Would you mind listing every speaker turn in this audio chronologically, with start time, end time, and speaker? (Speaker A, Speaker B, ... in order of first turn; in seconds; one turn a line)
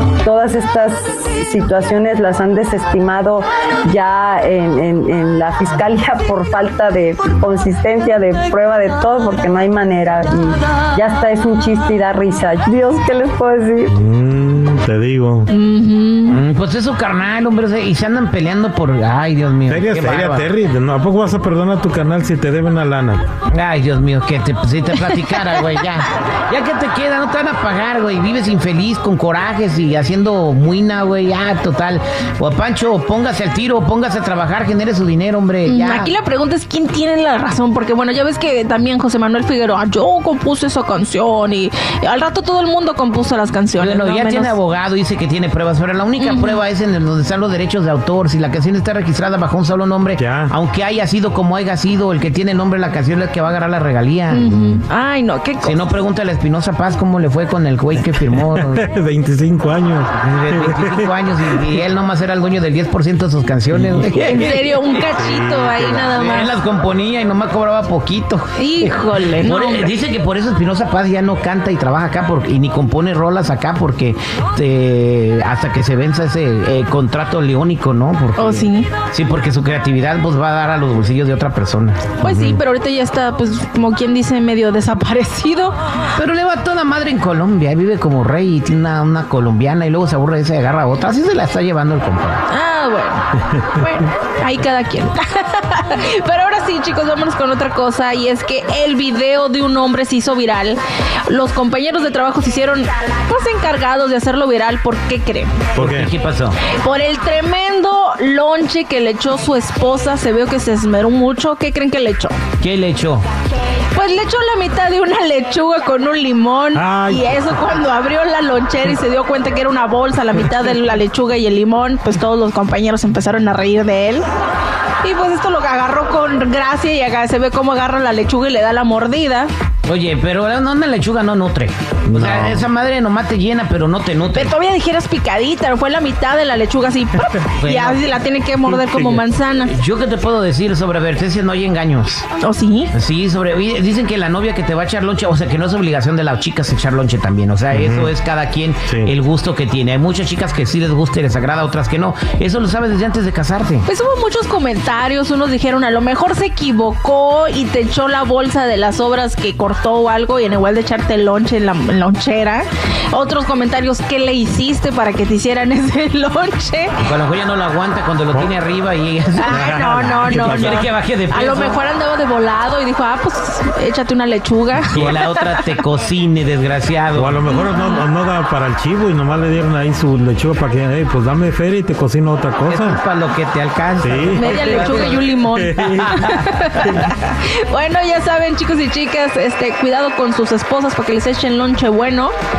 Speaker A: 0.2-13.9
Speaker B: 13.9-15.5
Speaker C: 15.5-16.4
Speaker D: 16.3-20.4
Speaker B: 19.7-23.2
Speaker D: 23.5-36.1
Speaker C: 35.6-44.5
Speaker D: 43.8-54.7
Speaker C: 46.2-46.6
Speaker B: 50.2-50.5
Speaker C: 54.3-55.8
Speaker D: 55.6-58.8
Speaker B: 58.2-61.1
Speaker D: 60.2-64.7
Speaker B: 63.7-64.3
Speaker C: 64.2-66.5
Speaker B: 65.0-66.2
Speaker D: 66.1-82.6
Speaker C: 68.6-69.9
Speaker C: 78.4-78.9
Speaker C: 82.2-85.8
Speaker D: 86.2-92.4
Speaker C: 92.5-105.6
Speaker D: 105.7-106.6
Speaker B: 105.8-106.1
Speaker C: 106.7-112.4
Speaker D: 112.6-113.2
Speaker C: 113.9-124.2
Speaker B: 116.7-117.4
Speaker C: 125.0-129.5
Speaker D: 129.9-134.5
Speaker B: 132.1-132.7
Speaker C: 134.3-139.7
Speaker D: 137.6-138.0
Speaker B: 138.7-139.2
Speaker D: 139.7-142.2
Speaker C: 142.4-142.9
Speaker D: 142.9-153.8
Speaker B: 147.7-148.1
Speaker C: 153.9-166.9
Speaker D: 167.0-171.8
Speaker C: 169.4-175.7
Speaker B: 169.5-170.9
Speaker D: 174.9-177.4
Speaker B: 177.1-183.0
Speaker C: 177.5-178.0
Speaker D: 182.7-185.2
Speaker B: 184.0-187.0
Speaker C: 184.3-192.3
Speaker D: 185.9-186.3